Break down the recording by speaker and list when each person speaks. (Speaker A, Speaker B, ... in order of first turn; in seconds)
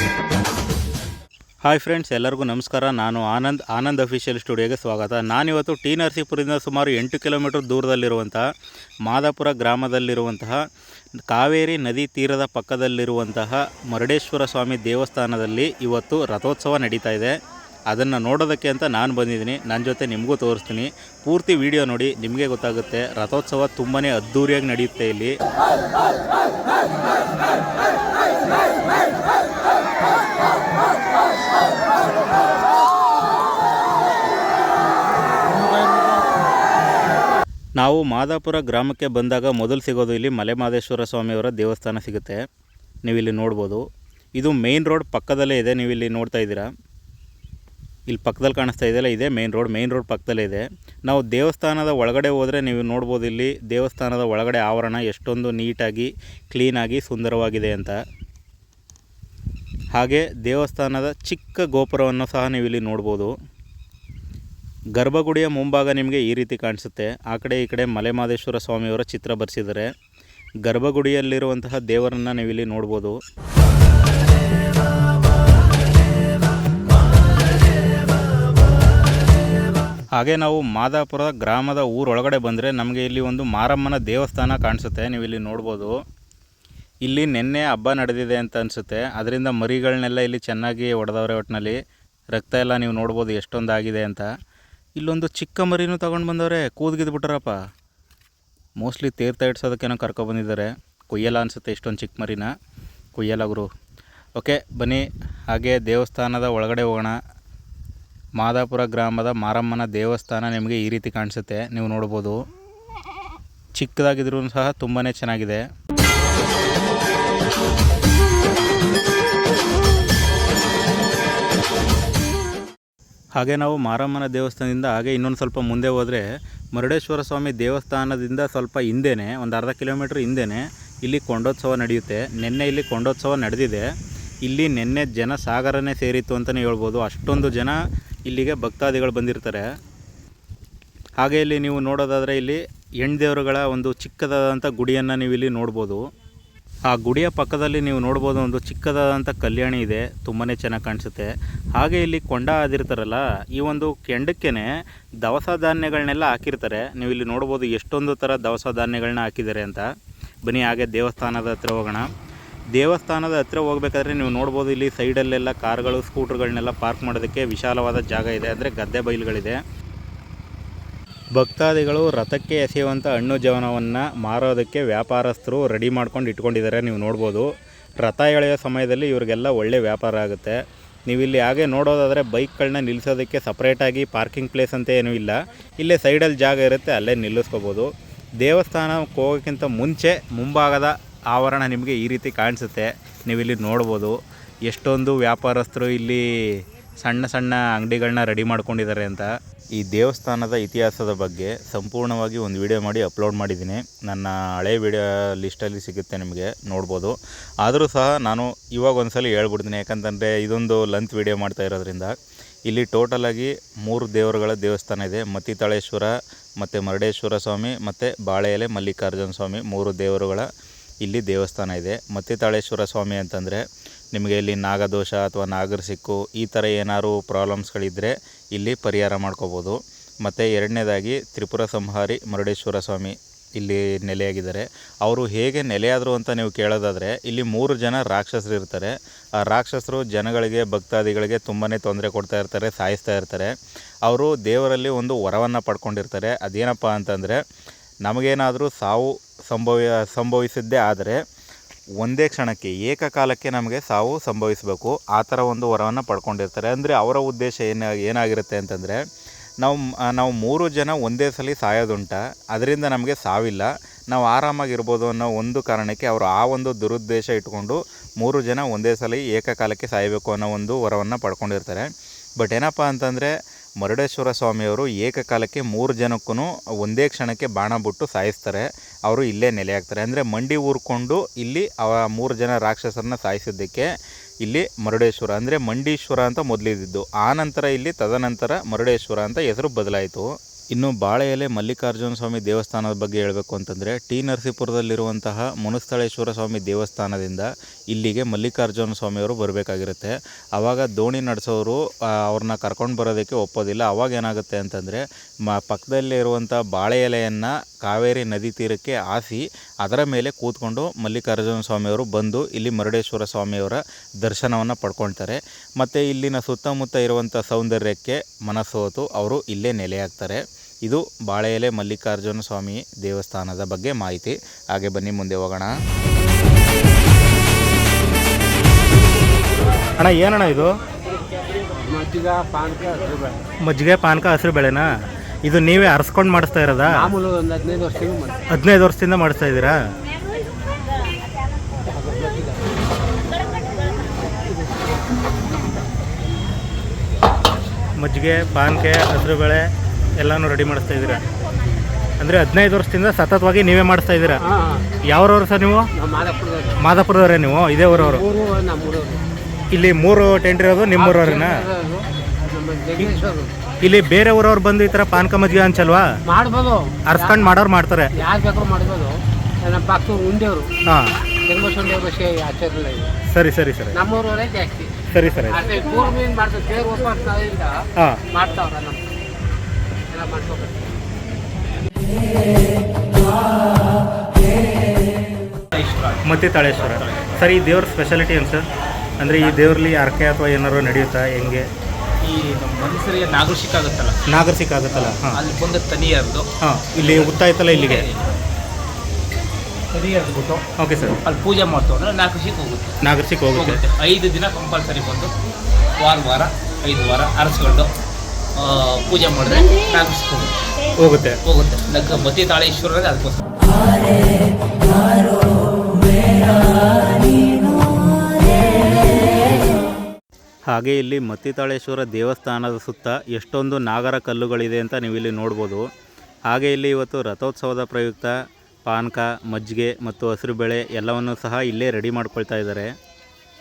Speaker A: 1.6-8.5, 9.1-10.6, 11.3-17.4, 17.9-25.3, 37.8-42.4, 43.0-43.8, 44.4-46.7, 48.1-58.0, 59.9-63.3, 65.0-69.9, 70.6-73.2, 80.2-86.0, 87.0-91.8, 92.3-94.3, 95.0-97.6, 98.8-102.5, 103.2-103.7, 104.4-107.2, 108.4-112.4, 113.8-115.6, 123.4-133.9, 134.4-139.6, 141.2-146.0, 146.9-154.7, 155.2-159.9, 160.4-162.1, 162.7-169.6, 171.4-177.5, 178.0-212.1, 212.7-220.5, 221.0-223.6, 224.1-243.5, 244.1-247.4, 248.0-251.2, 252.0-259.0, 259.6-283.9, 284.4-325.7, 330.0-330.7, 333.6-334.9, 335.5-337.1, 338.5-339.8, 348.0-349.6, 350.2-351.2, 352.2-354.4, 355.1-355.9, 356.8-358.3, 359.7-361.7, 363.8-366.1, 367.1-368.2, 373.3-374.0, 375.1-375.6, 378.0-378.2, 386.2-388.7, 389.2-391.7, 394.3-395.4, 396.6-398.1, 400.8-401.2, 403.0-403.8, 411.0-411.4, 420.7-425.9, 426.5-428.4, 428.9-432.9
Speaker B: 331.8-333.4, 337.2-338.4, 342.0-342.6, 354.5-354.8, 356.0-356.8, 358.1-359.2, 360.9-363.5, 366.3-367.0, 368.3-370.7, 371.5-373.1, 374.0-374.9, 375.9-377.6, 378.5-379.0, 380.1-380.9
Speaker C: 385.7-386.2, 386.7-387.3, 392.2-394.2, 394.9-398.3, 399.9-400.7, 401.2-403.0, 403.5-405.4, 406.0-408.0, 408.6-410.6, 411.4-413.4